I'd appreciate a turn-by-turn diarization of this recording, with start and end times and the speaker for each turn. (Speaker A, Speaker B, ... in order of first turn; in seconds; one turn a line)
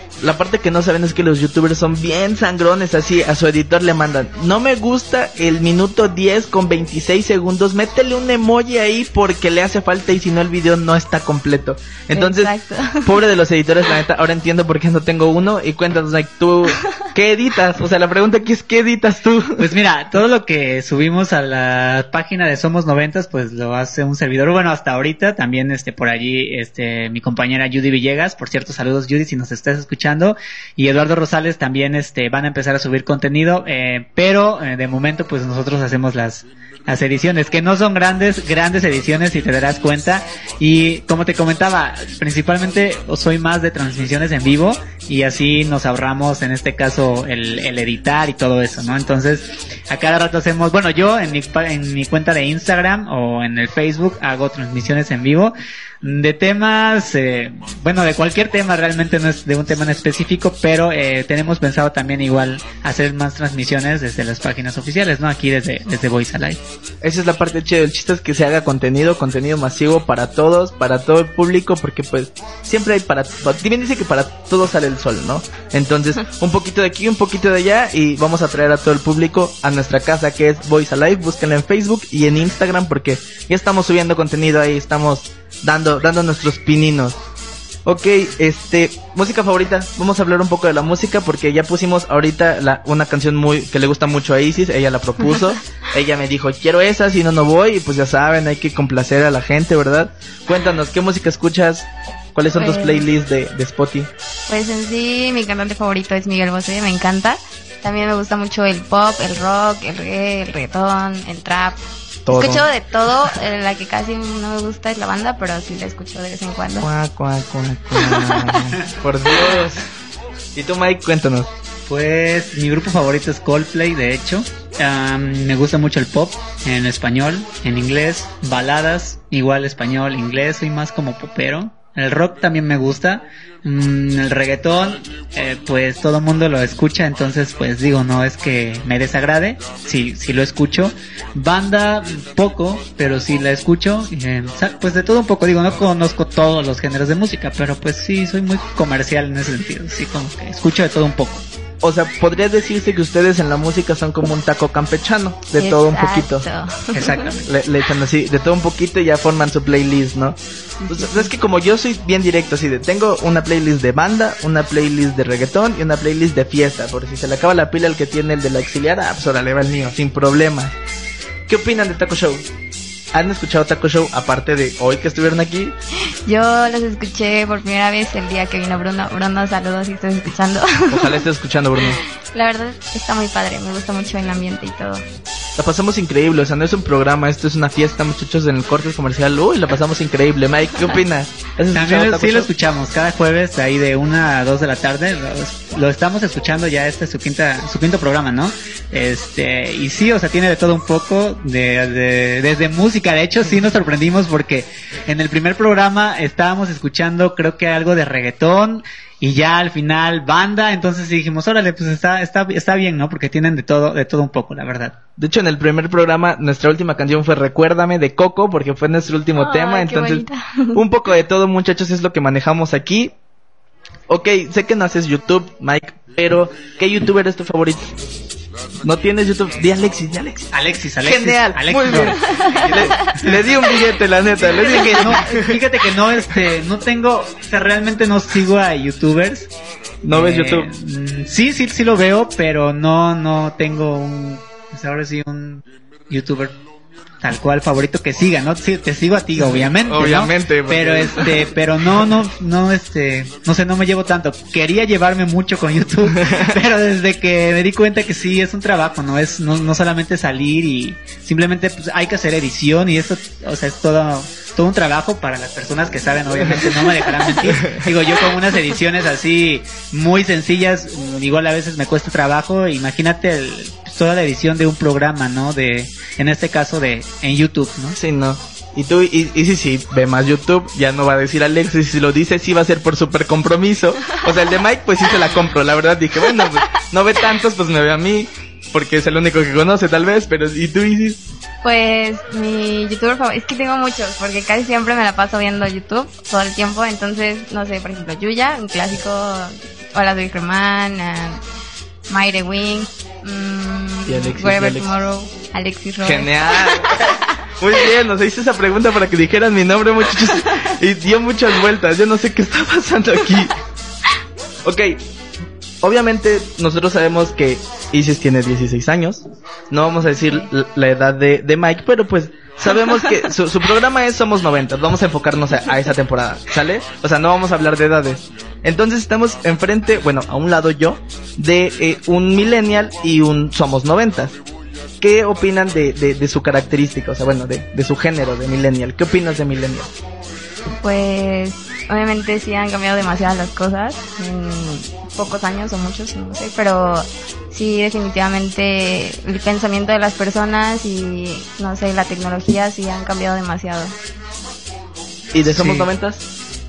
Speaker A: 0.2-12.5
Speaker B: 12.1-13.2
Speaker A: 13.0-19.6
Speaker C: 19.6-66.6
Speaker A: 67.0-87.2
Speaker A: 87.8-104.1
Speaker B: 102.6-103.0
Speaker B: 104.5-116.9
Speaker A: 112.2-112.7
Speaker A: 116.8-119.9
Speaker B: 118.0-118.5
Speaker A: 120.5-121.5
Speaker C: 121.9-151.4
Speaker A: 151.8-156.4
Speaker B: 155.6-157.2
Speaker C: 156.9-157.5
Speaker A: 157.4-170.8
Speaker B: 160.8-161.3
Speaker A: 171.5-172.4
Speaker A: 173.1-175.7
Speaker B: 176.2-181.2
Speaker A: 180.9-182.0
Speaker B: 182.3-185.0
Speaker A: 185.6-192.5
Speaker C: 191.7-214.9
Speaker A: 215.2-223.1
Speaker B: 219.3-220.8
Speaker A: 224.1-227.9
Speaker A: 228.8-230.5
Speaker C: 230.5-232.4
Speaker A: 231.0-235.6
Speaker B: 232.3-233.2
Speaker C: 234.4-239.5
Speaker A: 240.0-240.7
Speaker C: 240.1-246.5
Speaker C: 247.2-278.0
Speaker A: 249.8-251.5
Speaker A: 266.5-266.7
Speaker A: 267.4-267.9
Speaker A: 278.0-291.2
Speaker B: 291.6-301.4
Speaker B: 302.1-307.2
Speaker A: 304.1-304.9
Speaker A: 306.0-313.6
Speaker A: 314.6-315.0
Speaker A: 315.8-334.3
Speaker B: 320.2-320.5
Speaker A: 335.0-339.9
Speaker B: 340.8-353.9
Speaker A: 355.3-356.2
Speaker C: 355.4-355.9